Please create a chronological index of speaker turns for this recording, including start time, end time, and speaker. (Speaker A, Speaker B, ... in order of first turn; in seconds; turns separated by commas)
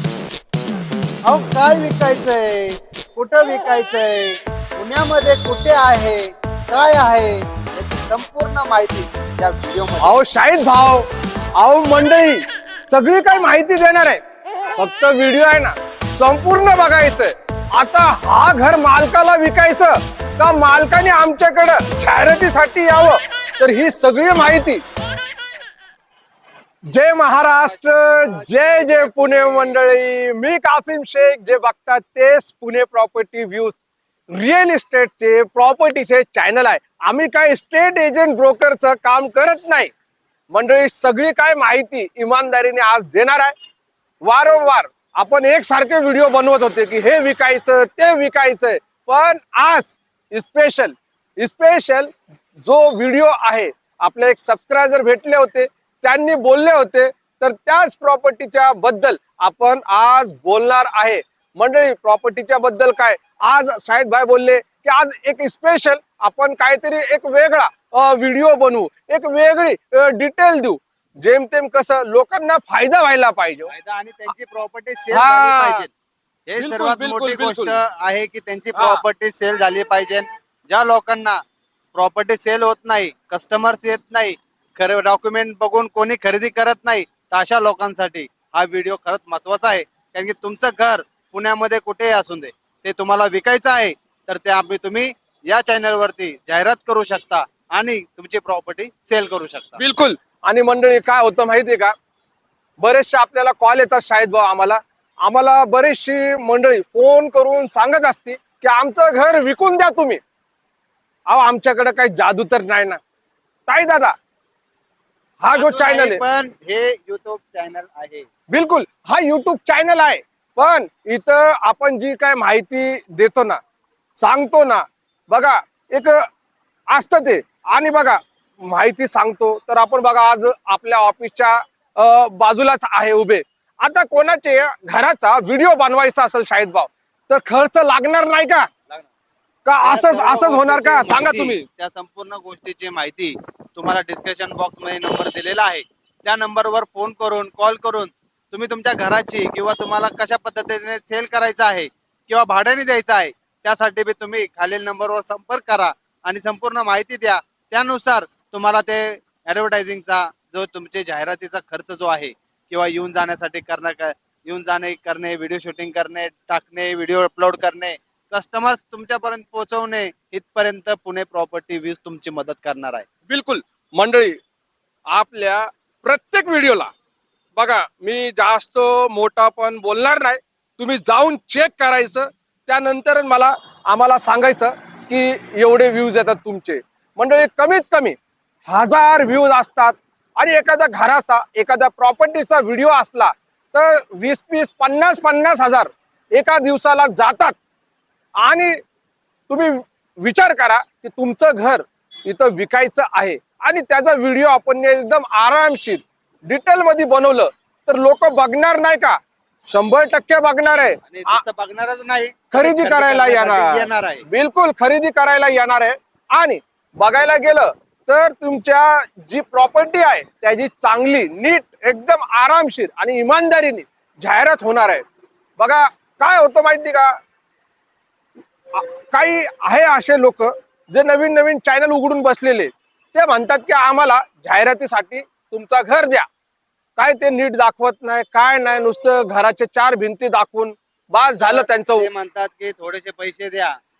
Speaker A: 1.3-10.2, Speaker B: 10.0-14.2, Speaker B: 14.8-24.8, Speaker B: 26.9-39.9, Speaker A: 27.5-29.8, Speaker B: 40.5-43.5, Speaker B: 44.2-73.7, Speaker A: 73.7-75.9, Speaker B: 75.1-75.9, Speaker A: 76.5-81.4, Speaker B: 76.6-77.8, Speaker B: 78.7-79.0, Speaker A: 81.9-99.8, Speaker B: 99.8-101.9, Speaker B: 102.8-110.2, Speaker B: 111.3-113.0, Speaker B: 113.7-114.1, Speaker B: 115.4-116.2, Speaker A: 115.5-118.3, Speaker B: 118.5-123.6, Speaker B: 124.2-126.2, Speaker B: 126.9-138.7, Speaker B: 139.7-141.7, Speaker A: 139.8-173.1, Speaker B: 173.3-174.4, Speaker B: 175.1-176.9, Speaker B: 177.6-197.6, Speaker B: 198.4-198.8, Speaker B: 199.5-211.4, Speaker A: 211.1-214.2, Speaker B: 212.5-225.0, Speaker B: 225.6-227.2, Speaker B: 228.7-236.3, Speaker B: 237.0-242.1, Speaker A: 241.4-243.7